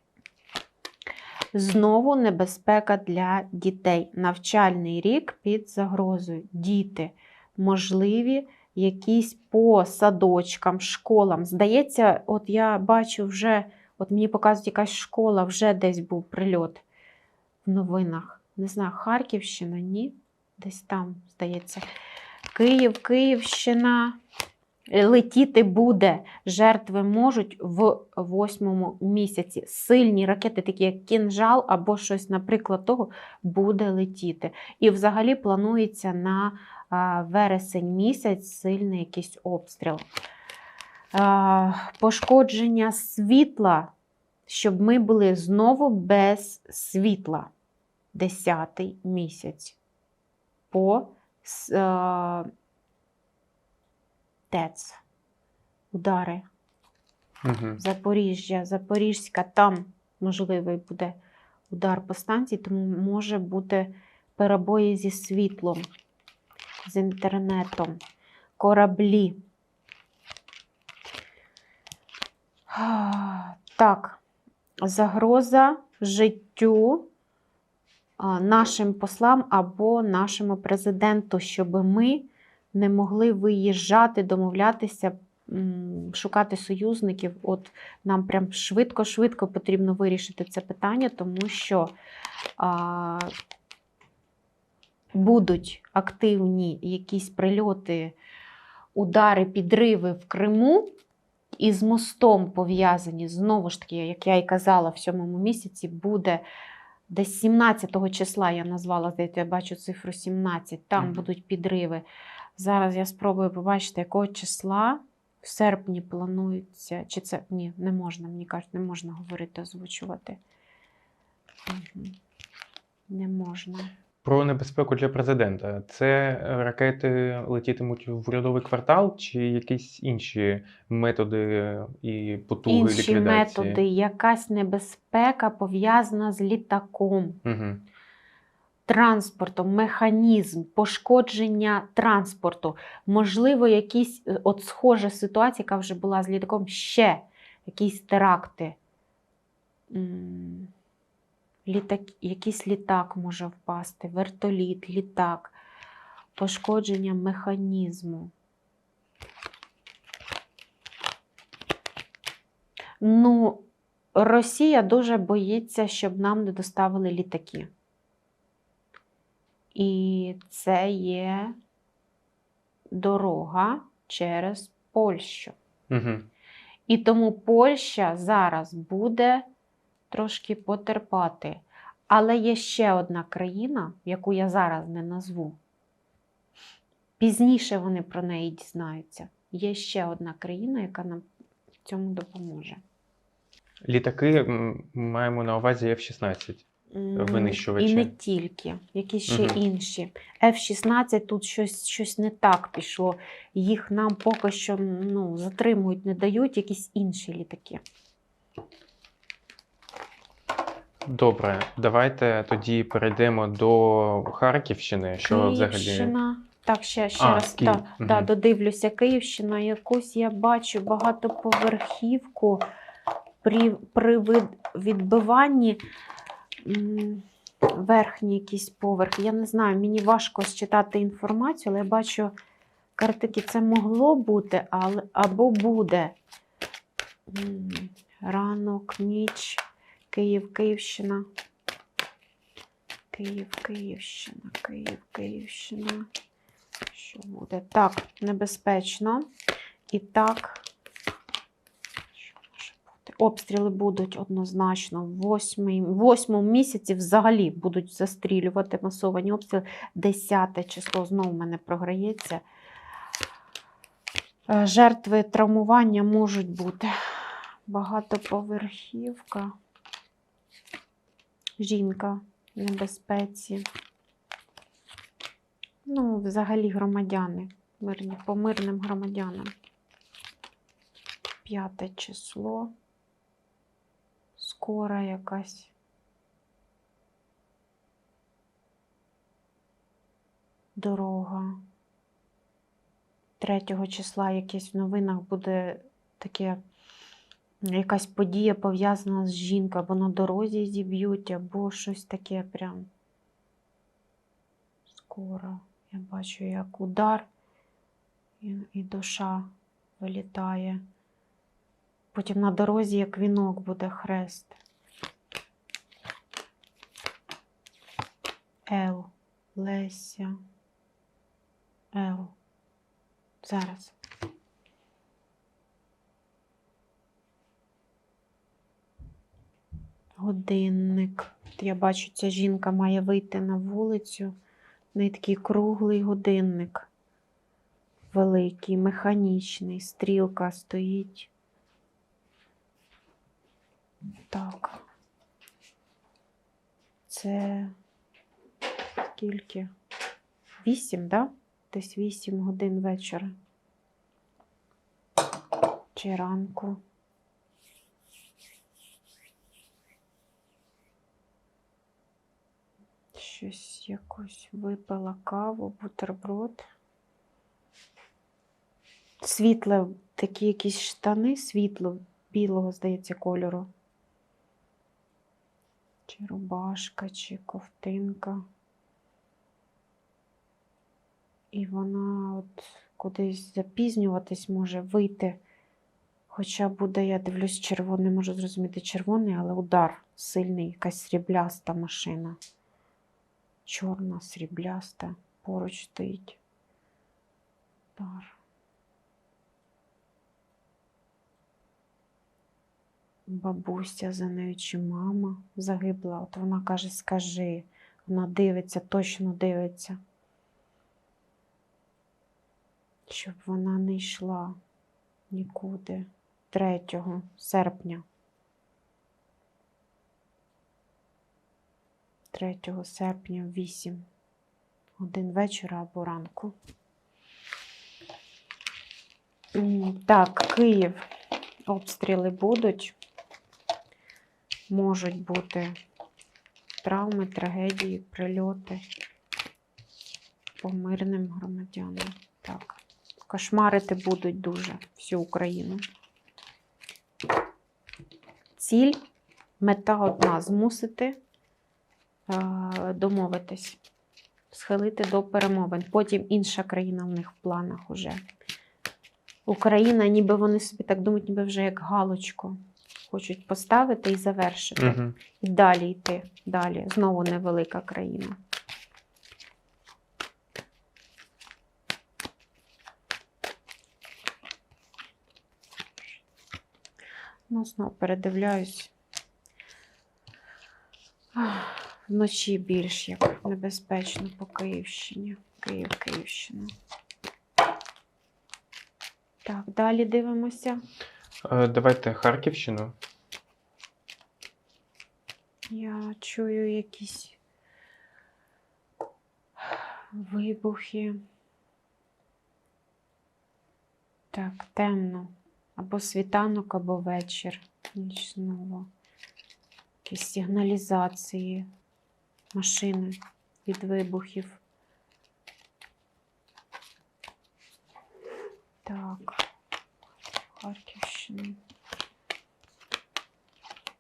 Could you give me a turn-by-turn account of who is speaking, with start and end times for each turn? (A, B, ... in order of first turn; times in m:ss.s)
0:01.5-0:16.8 A
0:17.6-0:21.8 A
0:22.5-0:24.2 A
0:24.9-0:40.0 A
0:41.1-0:43.9 A
0:44.5-0:47.5 A
0:48.1-0:49.8 A
0:50.7-0:52.5 A
0:54.5-0:55.0 A
0:55.9-0:56.5 A
0:57.4-0:57.8 B
0:57.8-1:01.2 A
1:01.7-1:05.9 A
1:06.8-1:08.0 A
1:08.6-1:09.4 A
1:12.7-1:14.2 A
1:14.8-1:17.1 A
1:18.2-1:31.9 A
1:32.6-1:33.3 A
1:35.1-1:38.2 A
1:39.0-1:40.9 A
1:41.6-1:46.4 A
1:47.1-1:52.0 A
1:51.0-1:51.2 B
1:52.6-2:00.4 A
2:01.7-2:02.2 A
2:03.1-2:03.9 A
2:04.2-2:13.8 B
2:12.7-2:17.4 A
2:17.4-2:17.8 B
2:18.9-2:28.8 A
2:29.9-2:30.7 A
2:31.7-2:35.6 A
2:36.4-2:38.3 A
2:43.0-2:47.7 A
2:49.8-2:51.6 A
2:52.9-2:55.6 A
2:55.9-2:56.3 B
2:56.9-2:59.4 A
3:00.1-3:05.6 A
3:07.2-3:11.2 A
3:11.8-3:12.8 A
3:13.8-3:18.1 B
3:16.9-3:27.8 A
3:19.3-3:19.6 B
3:31.0-3:36.1 B
3:35.2-3:42.6 A
3:37.2-3:38.3 B
3:43.4-3:45.8 A
3:46.6-3:52.4 A
3:53.0-3:56.2 A
3:57.3-4:01.2 A
4:03.1-4:06.1 A
4:06.9-4:09.3 A
4:09.9-4:10.7 A
4:12.2-4:22.4 A
4:24.5-4:29.5 A
4:31.6-4:33.6 A
4:35.9-4:39.5 A
4:41.4-4:42.7 A
4:44.4-4:45.7 A
4:50.8-4:51.6 A
4:53.4-4:56.6 A
4:57.6-5:02.9 A
5:05.0-5:07.3 A
5:08.4-5:09.5 A
5:10.0-5:10.8 A
5:12.1-5:14.6 A
5:18.7-5:20.4 A
5:21.9-5:22.4 A
5:23.4-5:24.0 A
5:30.2-5:34.3 A
5:35.0-5:36.9 A
5:38.1-5:41.3 A
5:44.3-5:44.8 A
5:47.1-5:47.8 A
5:49.0-5:49.7 A
5:50.6-5:53.3 A
5:56.0-5:56.8 A
6:03.1-6:06.6 A
6:09.2-6:13.7 A
6:16.1-6:18.4 A
6:21.5-6:25.4 A
6:26.3-6:32.4 A
6:33.7-6:36.4 A
6:38.0-6:38.4 A
6:43.3-6:50.0 A
6:53.1-6:54.6 A
6:55.3-6:58.0 A
7:02.3-7:04.0 A
7:05.0-7:06.5 A
7:09.6-7:11.0 A
7:11.7-7:13.0 A
7:14.7-7:15.8 A
7:16.8-7:18.8 A
7:20.6-7:25.8 A
7:28.6-7:29.0 A
7:29.6-7:31.2 A
7:32.3-7:33.8 A
7:34.5-7:38.2 A
7:39.5-7:48.4 A
7:44.8-7:45.2 B
7:57.5-7:58.9 A
8:01.4-8:06.7 A
8:09.4-8:10.8 A
8:11.4-8:13.0 B
8:15.7-8:17.4 A
8:19.7-8:21.2 A
8:24.3-8:28.9 A
8:30.1-8:31.7 A
8:32.5-8:34.6 A
8:38.8-8:39.4 A
8:40.6-8:41.6 A